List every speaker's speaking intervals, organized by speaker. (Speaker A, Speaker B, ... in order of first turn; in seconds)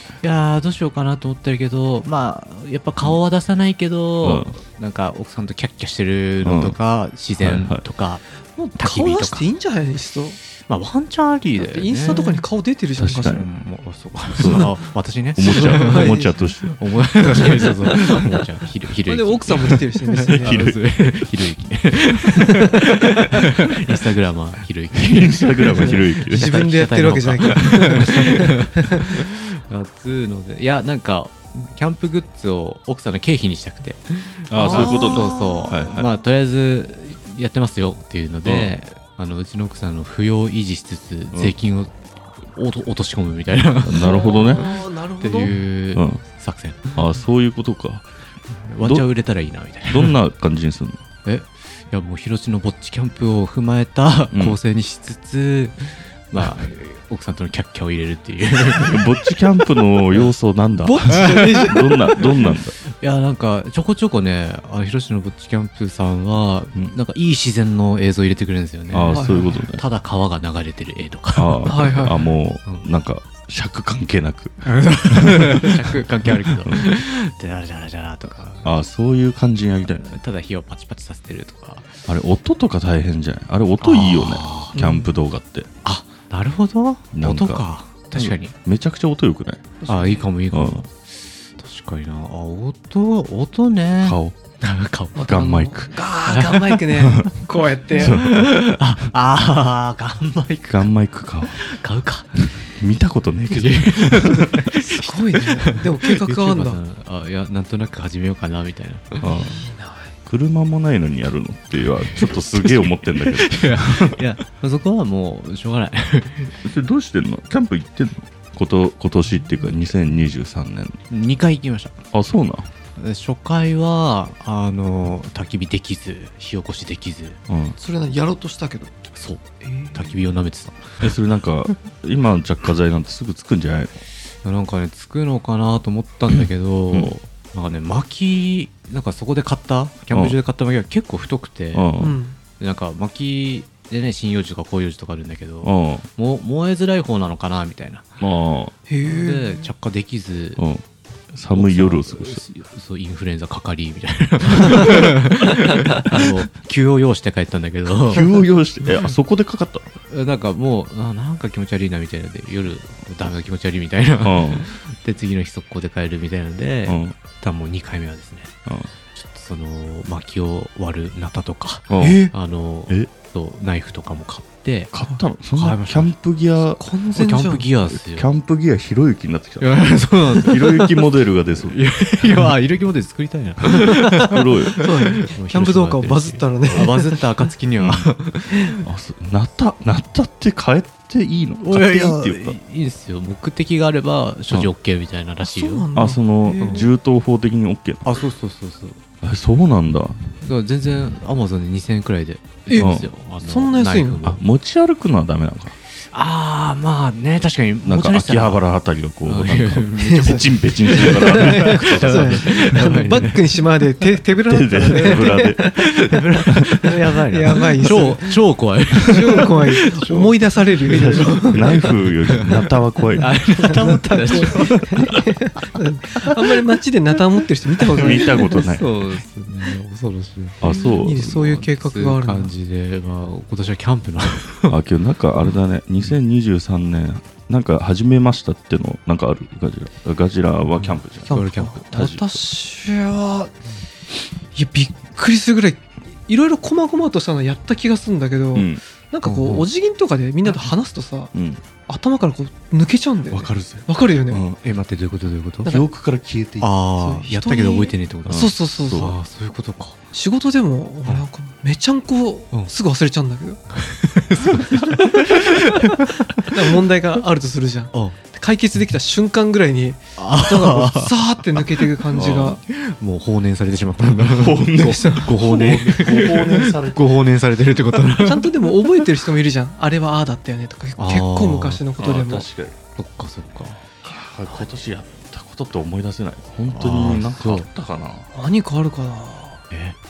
Speaker A: 0.2-8.3, 8.8-9.5, 10.7-12.4, 13.3-41.9, 42.5-47.0, 48.6-50.2, 51.2-59.2, 61.1-62.0, 62.9-72.0, 74.7-78.8, 79.9-81.9, 83.8-84.8, 85.8-88.5, 89.9-95.4, 96.2-97.3, 98.0-100.9, 101.4-102.5, 103.5-109.6, 112.2-116.6, 121.1-122.0, 123.0-127.4, 129.2-131.1, 134.4-141.9, 142.6-148.2, 149.0-150.6, 151.5-158.3, 160.1-168.5, 169.2-174.9, 175.5-176.2, 177.1-178.3, 179.6-181.1, 181.7-188.8, 191.6-195.9, 196.6-196.9, 198.1-199.0, 200.4-204.4, 205.9-208.7, 209.2-213.4, 214.8-225.1, 227.8-234.8, 240.8-241.8, 249.2-249.7, 254.6-255.8, 256.6-260.0, 263.7-266.5, 270.2-278.7, 281.0-281.9, 283.0-283.8, 286.7-287.7, 289.7-290.0
Speaker B: 4.2-4.5, 6.4-6.8, 7.4-7.8, 13.0-13.4, 14.4-14.7, 15.4-17.7, 20.2-21.1, 25.0-26.6, 34.5-36.1, 38.5-38.8, 43.8-44.7, 45.9-46.2, 47.0-48.1, 48.8-49.1, 49.9-51.0, 54.3-54.6, 58.8-62.8, 68.9-69.8, 71.3-76.9, 78.7-80.1, 82.1-85.7, 87.1-89.8, 90.5-90.9, 94.0-94.4, 95.3-95.9, 97.0-97.3, 98.0-98.4, 100.7-101.6, 102.6-104.6, 109.2-109.6, 110.3-114.2, 116.6-121.0, 122.1-122.7, 127.5-127.8, 131.0-133.9, 136.3-137.1, 140.1-140.4, 141.7-142.2, 145.6-146.1, 148.2-148.7, 150.6-152.4, 158.1-159.9, 164.2-164.7, 166.9-167.2, 171.9-172.3, 174.9-176.8, 177.8-182.5, 183.6-184.8, 186.7-186.9, 187.8-188.1, 188.8-192.6, 195.9-198.2, 199.2-200.2, 202.8-203.1, 204.2-205.8, 207.8-213.3, 214.5-215.8, 216.5-216.8, 219.1-219.5, 220.9-223.3, 224.7-225.1, 227.8-228.9, 230.6-231.6, 234.7-242.4, 248.5-248.8, 251.3-251.6, 253.3-254.6, 255.7-256.7, 258.3-259.2, 272.1-272.6, 274.3-277.2, 282.0-282.8, 284.0-288.3
Speaker C: 8.6-10.4, 11.6-13.5, 14.4-14.7, 15.5-16.4, 17.2-18.2, 19.1-20.7, 22.5-23.4, 25.8-29.0, 34.5-35.8, 44.0-45.6, 60.8-62.0, 69.1-69.6, 71.7-72.2, 84.8-85.2, 89.8-90.3, 95.2-98.2, 104.8-106.8, 109.3-110.1, 127.8-129.0, 129.6-130.2, 142.0-142.4, 148.9-149.7, 172.0-172.3, 176.8-177.7, 183.8-187.2, 195.4-196.9, 202.7-204.2, 210.0-216.2, 216.7-222.0, 223.2-228.7, 230.6-232.5, 241.3-243.5, 244.5-251.3, 251.9-254.4, 256.9-259.2, 260.1-263.6, 264.5-272.6, 274.8-276.7, 278.0-282.5, 288.3-289.6